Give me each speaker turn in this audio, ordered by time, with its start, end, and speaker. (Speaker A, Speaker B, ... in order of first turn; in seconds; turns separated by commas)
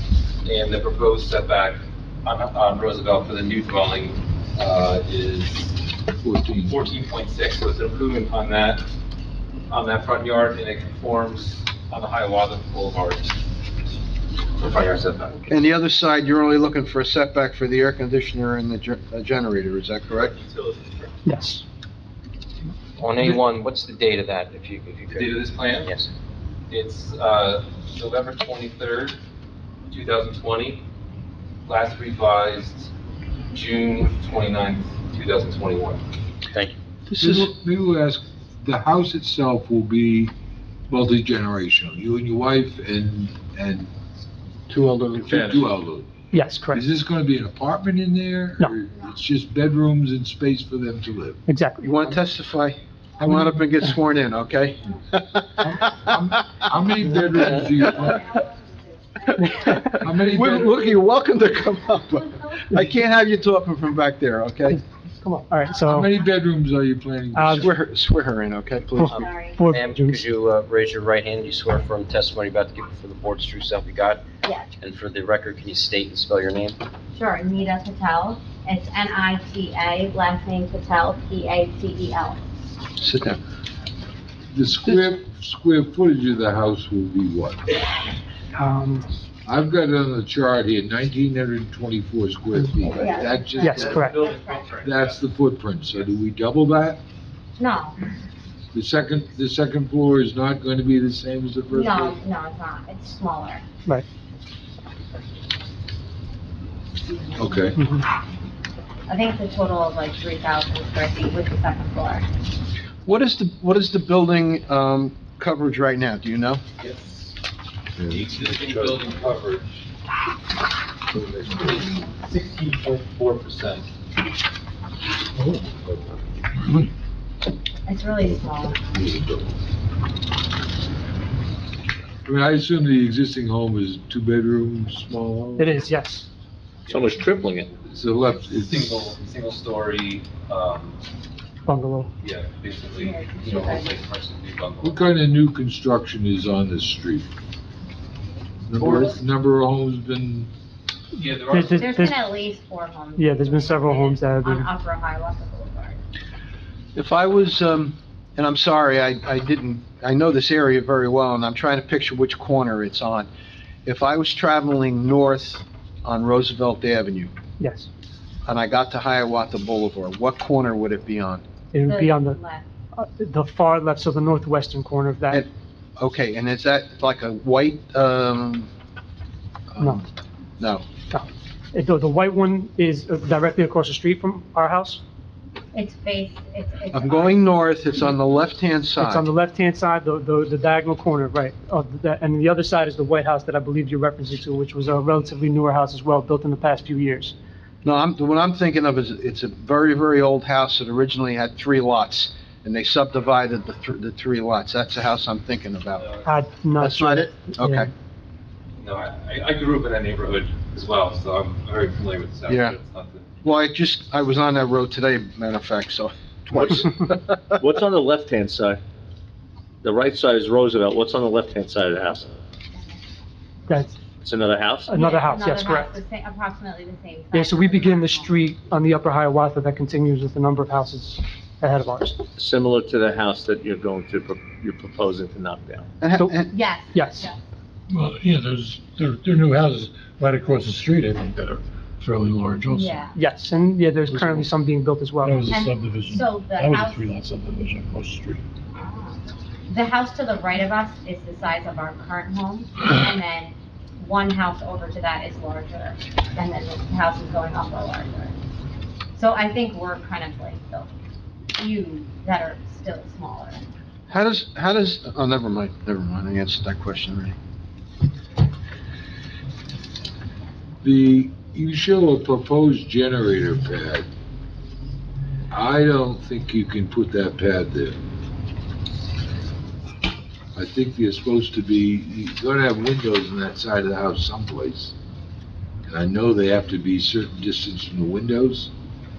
Speaker A: 0.4-5.8, Speaker B: 6.2-6.8, Speaker A: 6.6-8.8, Speaker A: 9.7-13.3, Speaker A: 14.6-15.4, Speaker C: 15.5-20.3, Speaker A: 20.1-21.1, Speaker D: 21.2-21.6, Speaker E: 23.0-26.1, Speaker F: 24.0-24.8, Speaker A: 25.1-25.9, Speaker A: 26.7-29.2, Speaker A: 29.9-30.8, Speaker A: 31.6-32.9, Speaker A: 33.5-36.0, Speaker C: 37.1-37.5, Speaker B: 37.2-40.3, Speaker B: 40.9-43.9, Speaker C: 44.7-45.4, Speaker B: 45.2-46.1, Speaker D: 46.3-46.9, Speaker B: 46.7-51.4, Speaker D: 51.5-52.0, Speaker C: 51.8-56.6, Speaker B: 53.2-53.6, Speaker B: 55.8-58.3, Speaker C: 57.4-58.0, Speaker F: 58.1-58.4, Speaker D: 59.4-60.0, Speaker C: 59.9-64.8, Speaker B: 60.0-60.9, Speaker D: 64.7-66.1, Speaker B: 65.8-67.7, Speaker D: 67.3-67.7, Speaker C: 67.5-69.2, Speaker D: 69.0-70.2, Speaker E: 69.1-74.2, Speaker F: 69.3-69.6, Speaker F: 74.4-74.7, Speaker E: 74.8-76.8, Speaker F: 77.1-82.4, Speaker C: 83.0-83.4, Speaker B: 84.5-87.6, Speaker D: 88.5-89.0, Speaker B: 89.5-94.2, Speaker F: 92.9-94.6, Speaker D: 93.6-94.2, Speaker A: 93.8-95.2, Speaker B: 94.7-97.0, Speaker F: 97.6-98.1, Speaker B: 98.7-102.2, Speaker F: 101.7-103.6, Speaker B: 107.3-107.8, Speaker D: 107.8-108.0, Speaker F: 109.1-112.3, Speaker C: 113.0-116.6, Speaker A: 116.8-117.3, Speaker B: 118.0-119.3, Speaker A: 118.0-119.7, Speaker B: 121.1-122.0, Speaker A: 121.7-123.8, Speaker F: 127.8-128.9, Speaker B: 128.2-129.5, Speaker B: 132.2-135.8, Speaker D: 135.6-136.2, Speaker A: 136.9-141.0, Speaker G: 136.9-137.7, Speaker B: 137.8-139.0, Speaker D: 141.7-142.1, Speaker A: 142.2-145.1, Speaker F: 142.9-143.9, Speaker B: 144.8-147.3, Speaker B: 148.7-150.5, Speaker A: 151.1-151.9, Speaker D: 151.5-152.1, Speaker F: 151.8-156.0, Speaker D: 153.2-154.7, Speaker C: 156.9-163.3, Speaker C: 163.8-167.3, Speaker D: 167.6-167.9, Speaker C: 168.4-171.4, Speaker D: 171.7-172.4, Speaker F: 171.8-172.7, Speaker D: 172.9-175.4, Speaker C: 175.3-178.7, Speaker C: 179.7-180.0, Speaker C: 180.6-180.8, Speaker D: 181.1-185.0, Speaker F: 185.7-187.4, Speaker C: 186.9-189.2, Speaker D: 189.0-197.3, Speaker C: 197.8-206.1, Speaker A: 205.9-206.3, Speaker D: 206.2-207.9, Speaker C: 206.8-207.9, Speaker A: 208.8-213.2, Speaker C: 212.5-212.8, Speaker C: 213.4-217.1, Speaker G: 217.5-218.8, Speaker G: 219.8-222.3, Speaker D: 223.7-223.9, Speaker G: 224.2-225.0, Speaker D: 224.8-225.9, Speaker F: 225.0-228.4, Speaker D: 227.3-232.2, Speaker G: 232.4-235.9, Speaker C: 236.0-236.5, Speaker F: 236.5-237.3, Speaker D: 236.9-237.3, Speaker H: 237.9-243.1, Speaker F: 242.7-243.2, Speaker D: 243.1-245.4, Speaker H: 245.2-248.4, Speaker F: 245.5-247.2, Speaker F: 248.7-258.3, Speaker F: 259.1-260.9, Speaker F: 261.6-263.6, Speaker C: 264.1-267.3, Speaker B: 270.8-274.1, Speaker B: 275.5-277.9, Speaker B: 280.5-284.9, Speaker B: 285.9-288.7